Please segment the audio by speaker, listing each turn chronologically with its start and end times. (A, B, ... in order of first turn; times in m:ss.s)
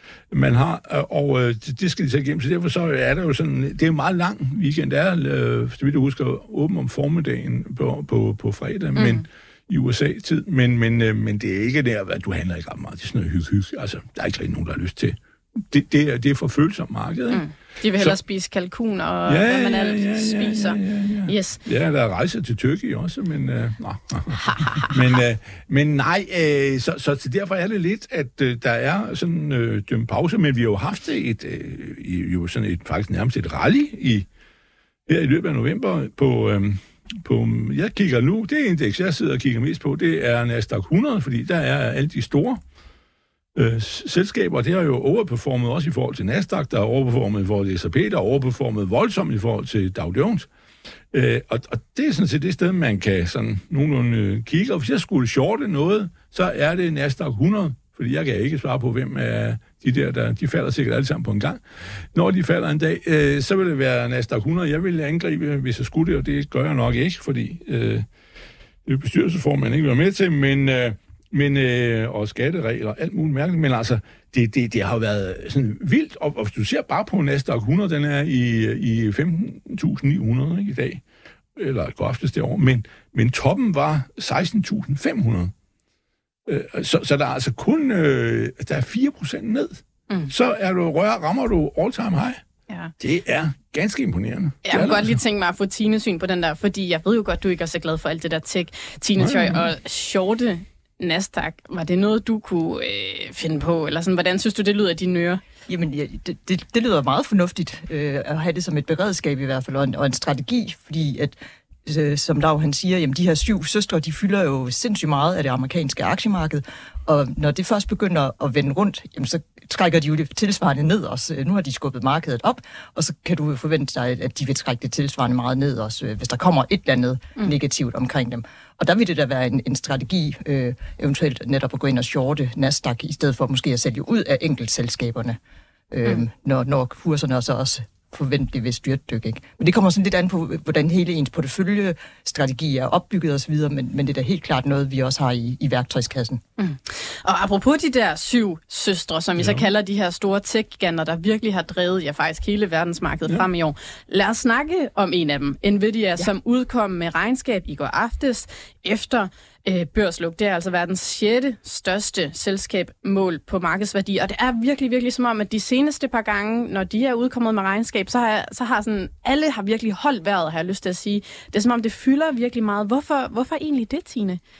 0:00.3-0:17.4 A
0:09.0-0:09.2 B
0:17.3-0:21.6 B
0:19.2-0:34.2 A
0:24.4-0:25.2 B
0:35.1-0:42.6 A
0:43.5-0:50.5 A
0:51.1-1:01.6 A
1:02.1-1:08.0 A
1:08.8-1:21.0 A
1:21.6-1:25.5 A
1:26.4-1:32.4 A
1:33.0-1:35.2 A
1:34.6-1:45.4 B
1:39.2-1:39.6 A
1:45.7-2:15.4 C
2:15.9-2:26.4 C
2:26.6-2:54.4 B
2:29.4-2:29.6 A